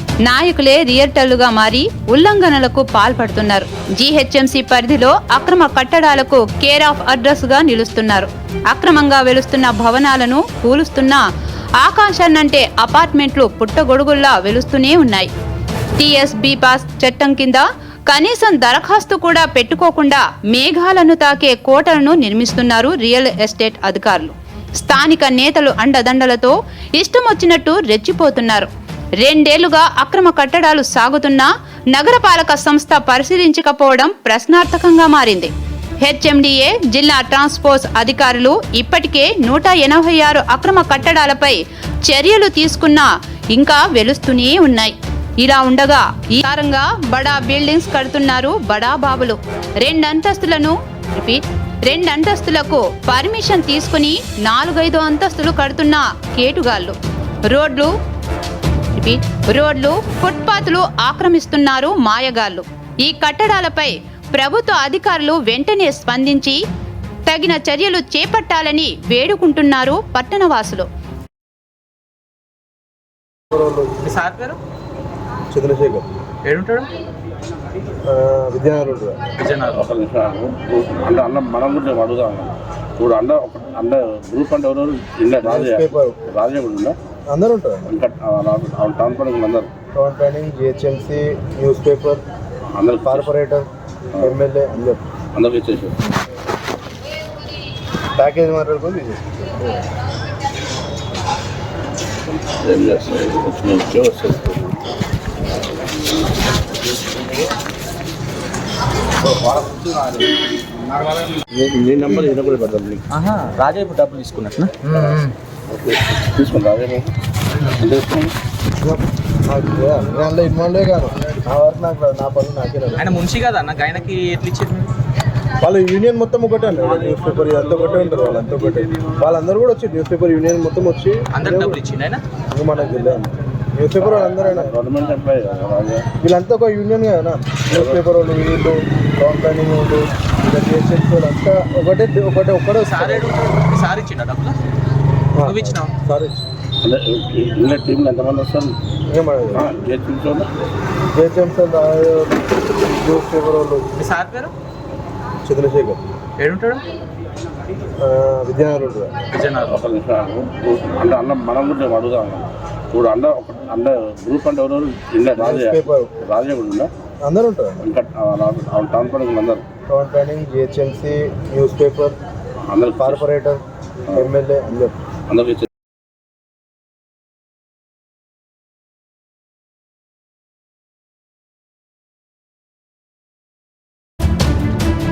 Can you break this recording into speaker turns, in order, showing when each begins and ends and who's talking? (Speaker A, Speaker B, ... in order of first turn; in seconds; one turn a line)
Speaker A: 0.2-11.2
Speaker A: 11.8-15.3
Speaker A: 16.0-28.7
Speaker A: 29.2-35.5
Speaker A: 36.0-57.0
Speaker A: 57.5-57.9
Speaker A: 58.9-66.6
Speaker A: 67.3-70.9
Speaker B: 73.5-73.9
Speaker C: 74.0-74.6
Speaker B: 75.5-76.1
Speaker C: 76.5-76.9
Speaker B: 78.1-79.2
Speaker C: 79.4-79.9
Speaker D: 79.7-87.0
Speaker B: 85.4-86.2
Speaker B: 87.3-87.9
Speaker D: 87.9-89.7
Speaker B: 89.9-92.2
Speaker D: 92.7-93.3
Speaker B: 93.0-93.7
Speaker B: 94.2-95.0
Speaker D: 95.3-96.0
Speaker B: 98.2-99.8
Speaker D: 102.4-104.8
Speaker D: 107.0-107.4
Speaker D: 109.2-110.4
Speaker D: 111.4-113.0
Speaker C: 113.1-115.3
Speaker D: 114.8-118.3
Speaker B: 118.8-123.2
Speaker C: 123.0-124.9
Speaker B: 125.6-131.8
Speaker C: 131.3-132.2
Speaker B: 132.5-134.8
Speaker D: 134.0-136.1
Speaker B: 136.2-143.3
Speaker D: 137.7-138.0
Speaker C: 142.8-144.6
Speaker B: 145.3-146.4
Speaker C: 145.4-145.9
Speaker D: 146.8-148.8
Speaker B: 149.1-149.7
Speaker D: 149.5-150.5
Speaker B: 151.1-153.8
Speaker C: 153.9-154.5
Speaker B: 155.4-156.0
Speaker C: 156.4-156.8
Speaker B: 158.0-159.1
Speaker C: 159.3-159.9
Speaker D: 159.7-166.9
Speaker B: 165.4-166.1
Speaker B: 167.2-167.8
Speaker D: 167.8-169.7
Speaker B: 169.9-172.2
Speaker D: 172.6-173.2
Speaker B: 173.0-173.6
Speaker B: 174.1-175.0
Speaker D: 175.3-175.7